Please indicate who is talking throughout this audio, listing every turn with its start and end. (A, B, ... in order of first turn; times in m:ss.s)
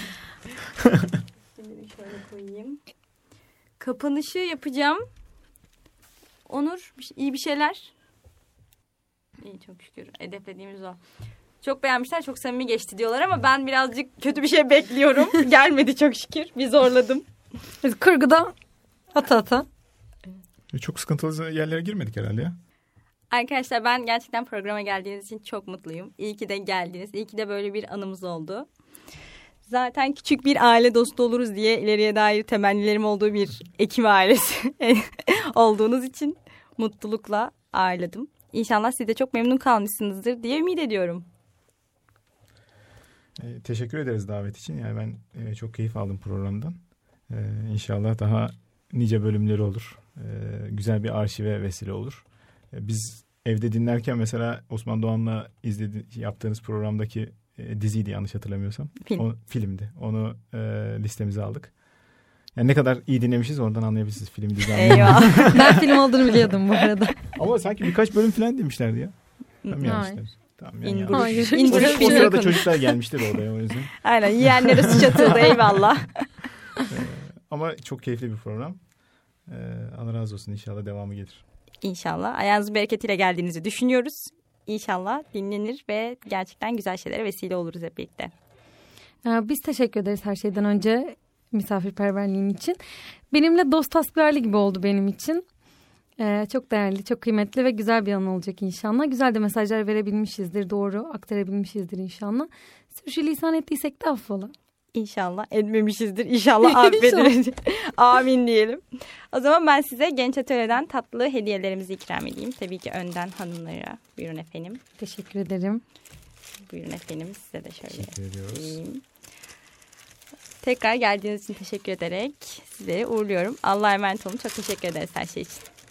0:00.8-0:01.2 A
0:01.6-0:02.8 B
0:03.8-0:05.0 B
0:06.5-0:07.9 B
0:09.4-0:11.0 B
0:11.6-0:17.3 B
0:17.8-0:18.5 C
0:19.1-0:19.7 C
0:20.7-0:22.6 A
0:23.3-0:28.7 B
0:29.7-0:41.3 B
0:43.4-0:46.8 A
0:47.3-1:01.7 A
1:02.6-1:05.8 A
1:04.7-1:05.8 B
1:05.5-1:07.2 C
1:07.3-1:15.8 A
1:09.6-1:10.0 B
1:09.8-1:10.2 C
1:10.8-1:13.0 B
1:11.1-1:12.4 C
1:14.0-1:16.5 B
1:16.9-1:18.8 A
1:19.5-1:21.4 A
1:21.8-1:28.3 B
1:29.2-1:32.8 C
1:33.3-1:35.4 C
1:36.2-1:44.5 C
1:44.9-1:54.8 B
1:46.6-1:47.3 C
1:55.0-1:55.8 C
1:56.7-1:59.0 B
1:57.9-1:58.8 A
2:00.6-2:05.7 B